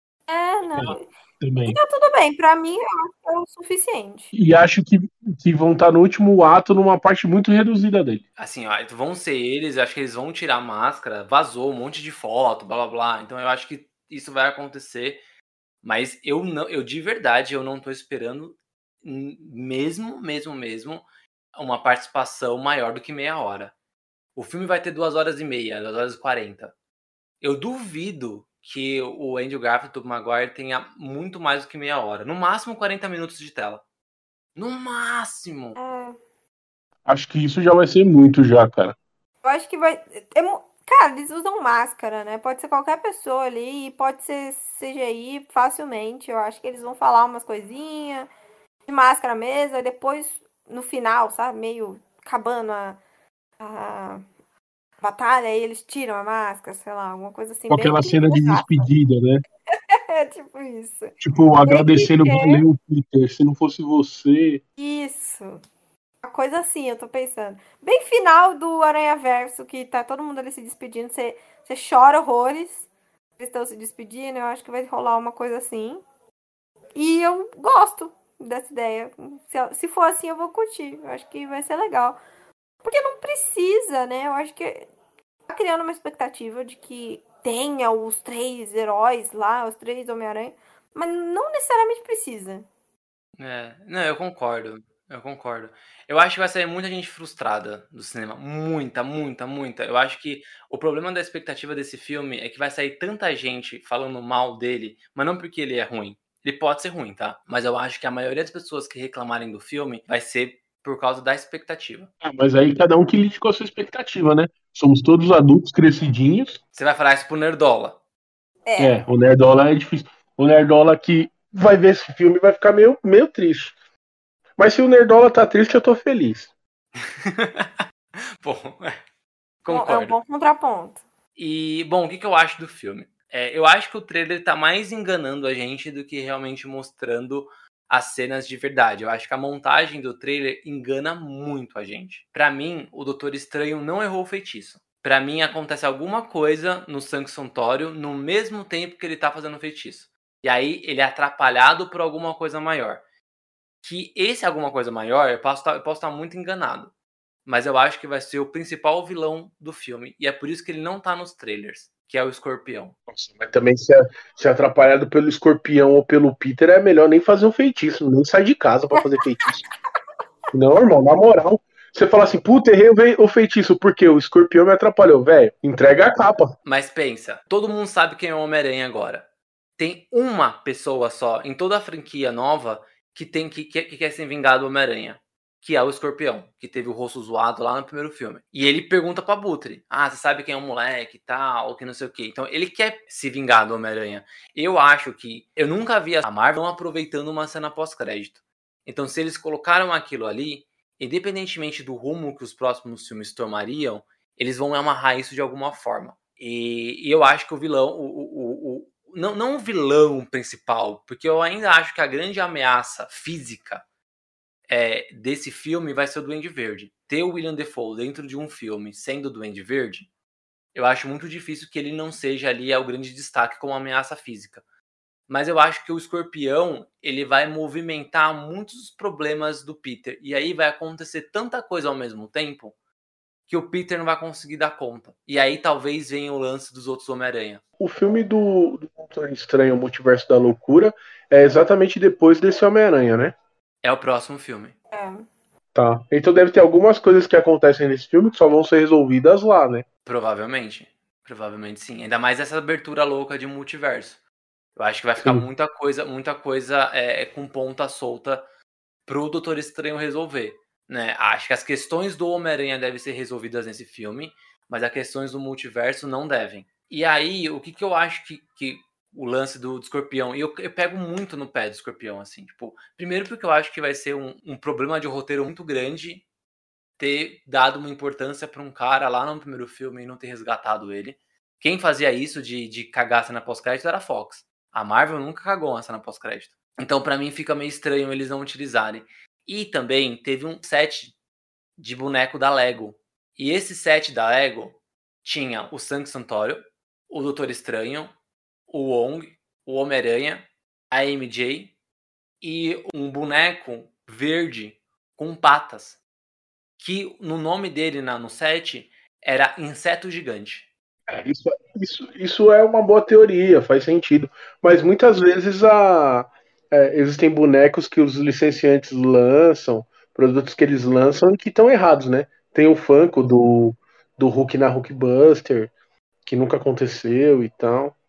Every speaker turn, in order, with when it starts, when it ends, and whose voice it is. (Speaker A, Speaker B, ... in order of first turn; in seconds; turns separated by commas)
Speaker A: 0.3-1.1, Speaker B: 0.7-1.8, Speaker A: 1.6-4.3, Speaker B: 4.3-8.2, Speaker C: 8.4-15.2, Speaker C: 15.8-23.7, Speaker C: 24.3-26.7, Speaker C: 27.4-33.8, Speaker C: 34.5-35.8, Speaker A: 35.8-36.2, Speaker B: 37.0-39.0, Speaker A: 39.4-48.3, Speaker A: 48.9-53.0, Speaker A: 53.6-54.2, Speaker A: 55.0-58.7, Speaker B: 57.7-59.4, Speaker A: 59.9-62.6, Speaker B: 61.2-64.6, Speaker A: 64.8-65.6, Speaker A: 66.2-76.0, Speaker A: 77.0-82.2, Speaker A: 82.8-84.9, Speaker A: 85.5-92.7, Speaker C: 93.4-112.1, Speaker B: 112.2-116.6, Speaker C: 116.7-118.0, Speaker A: 118.7-119.0, Speaker B: 118.8-123.7, Speaker B: 124.6-126.5, Speaker C: 127.0-127.8, Speaker C: 128.4-129.0, Speaker C: 129.6-130.2, Speaker A: 129.7-131.0, Speaker C: 131.3-153.0, Speaker C: 153.8-156.9, Speaker C: 157.4-162.9, Speaker B: 163.1-169.6, Speaker B: 170.5-176.5, Speaker C: 176.6-179.2, Speaker C: 179.8-213.8, Speaker C: 214.7-220.1, Speaker C: 220.7-224.6, Speaker C: 225.3-232.7, Speaker C: 233.5-237.6, Speaker B: 237.8-243.3, Speaker C: 243.8-244.8, Speaker A: 244.9-245.2, Speaker B: 245.7-249.8, Speaker C: 250.0-254.2, Speaker C: 254.8-258.4, Speaker B: 255.2-255.4, Speaker C: 259.1-276.2, Speaker C: 277.0-291.1, Speaker C: 291.8-298.1, Speaker C: 298.7-301.7, Speaker C: 302.4-306.0, Speaker C: 306.8-310.7, Speaker B: 311.1-325.7, Speaker B: 326.2-327.9